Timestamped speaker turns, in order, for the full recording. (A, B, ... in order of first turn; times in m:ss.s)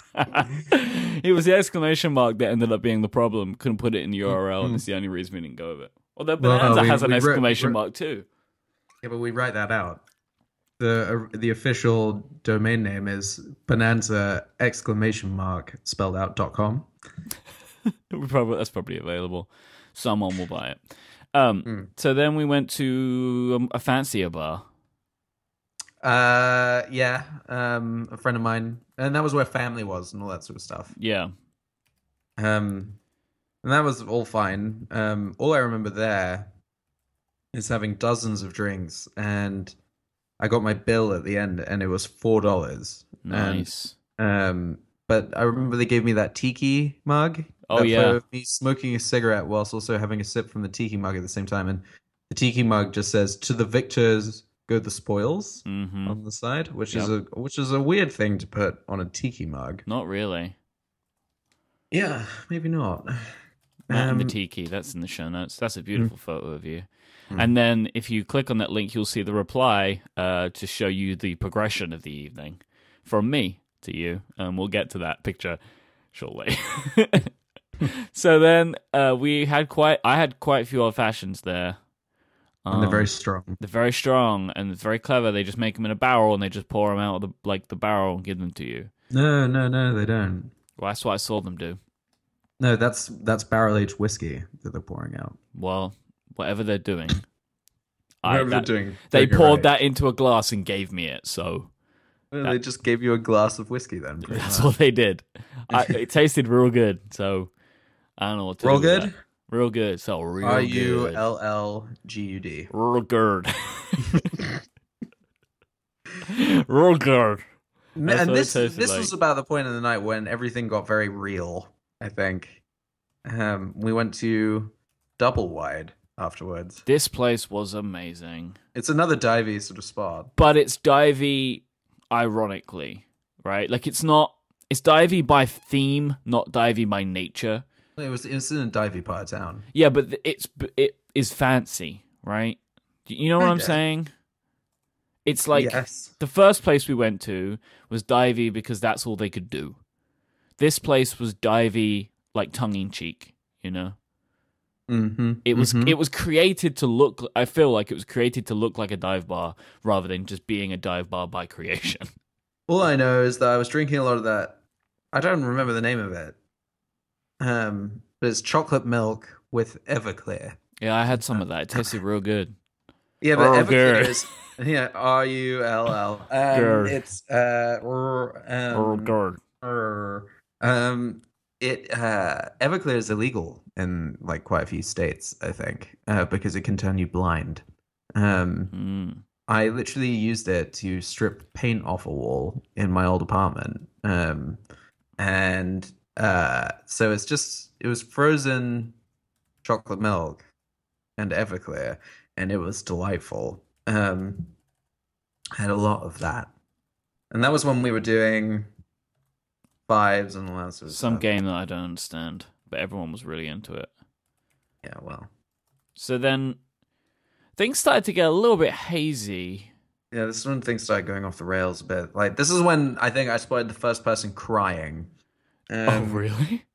0:00.1-0:08.2 A
0:04.3-0:04.8 B
0:06.4-0:07.8 B
0:09.0-0:10.0 B
0:10.8-0:16.9 B
0:18.1-0:20.8 A
0:21.3-0:24.6 A
0:26.0-0:30.9 B
0:30.9-0:31.3 A
0:32.4-0:33.0 B
0:33.6-0:36.5 B
0:37.5-0:39.7 B
0:40.4-0:59.8 B
0:43.2-0:44.0 A
0:47.7-0:48.2 A
0:55.6-0:56.2 A
0:59.9-1:00.6 A
1:01.9-1:03.3 B
1:03.9-1:04.4 B
1:03.9-1:15.6 A
1:16.1-1:21.8 A
1:22.6-1:28.9 A
1:22.7-1:23.6 B
1:29.1-1:30.5 B
1:30.8-1:31.8 A
1:32.6-1:35.4 B
1:35.5-1:37.2 A
1:38.2-1:41.7 A
1:38.2-1:39.7 B
1:42.3-1:44.7 B
1:44.2-1:47.5 A
1:45.7-1:46.0 B
1:48.2-1:51.2 A
1:48.6-1:49.1 B
1:50.4-1:52.7 B
1:52.7-1:54.4 A
1:56.2-1:57.4 A
1:58.0-2:02.6 B
1:58.0-1:59.1 A
2:03.2-2:06.8 B
2:06.9-2:08.6 A
2:08.7-2:10.3 B
2:10.4-2:17.6 A
2:18.0-2:19.7 B
2:19.7-2:24.1 A
2:23.4-2:23.8 B
2:25.2-2:29.8 A
2:25.5-2:26.1 B
2:30.6-2:34.0 A
2:34.9-2:36.0 B
2:35.4-2:42.1 A
2:42.7-2:44.6 B
2:45.1-2:46.4 B
2:47.4-2:50.6 B
2:50.8-2:52.5 A
2:51.2-2:52.0 B
2:53.2-3:07.6 B
2:53.4-2:54.3 A
2:56.5-2:57.0 A
2:58.7-2:59.4 A
3:08.1-3:08.7 B
3:08.7-3:09.2 A
3:09.5-3:14.6 B
3:15.2-3:18.9 B
3:19.6-3:20.4 B
3:21.2-3:24.5 B
3:25.6-3:26.5 B
3:27.3-3:28.7 B
3:29.9-3:31.2 B
3:30.9-3:33.9 A
3:34.8-3:35.3 B
3:36.0-3:36.6 A
3:37.6-3:39.7 A
3:40.1-3:45.1 B
3:45.7-3:46.2 B
3:45.9-3:46.6 A